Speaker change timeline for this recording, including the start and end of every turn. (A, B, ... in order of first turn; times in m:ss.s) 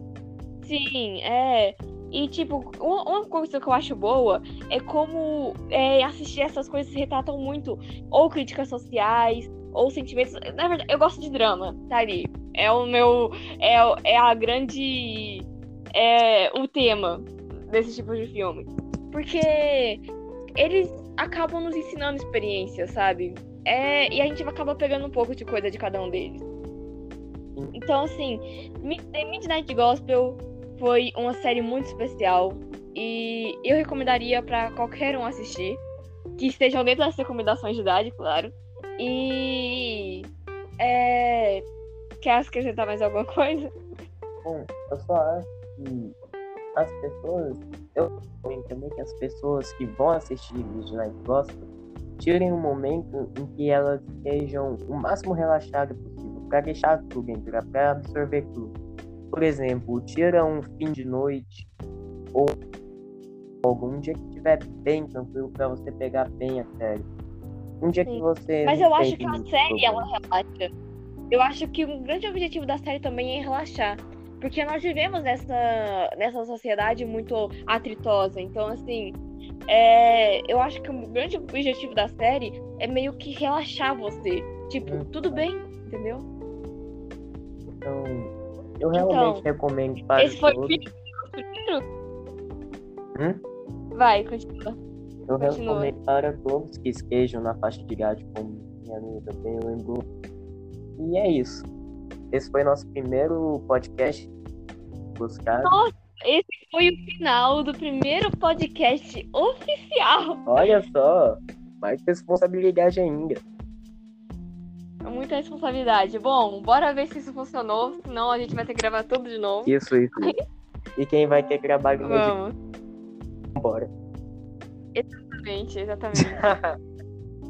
0:00.6-0:20.0 A
0:20.6-0:26.4 A
0:27.7-0:35.8 A
0:36.4-0:40.2 A
0:40.8-0:41.6 A
0:42.2-0:43.7 A
0:44.4-0:46.1 B
0:46.7-0:51.6 B
0:52.2-0:58.7 B
0:59.3-1:01.7 B
1:03.6-1:07.0 B
1:07.8-1:10.1 B
1:08.0-1:10.7 A
1:11.3-1:19.2 A
1:19.7-1:26.2 A
1:24.8-1:25.5 B
1:27.7-1:30.8 B
1:28.9-1:29.4 A
1:30.2-1:31.8 A
1:33.2-1:33.4 B
1:33.9-1:34.8 A
1:35.3-1:40.0 B
1:35.4-1:35.9 A
1:41.0-1:41.6 B
1:42.3-1:44.3 B
1:45.2-1:45.8 B
1:45.6-1:50.4 A
1:50.5-1:53.4 B
1:55.0-2:00.4 A
1:59.6-2:00.3 B
2:01.0-2:02.4 B
2:02.0-2:02.5 A
2:03.6-2:03.9 B
2:04.9-2:06.4 A
2:06.2-2:06.7 B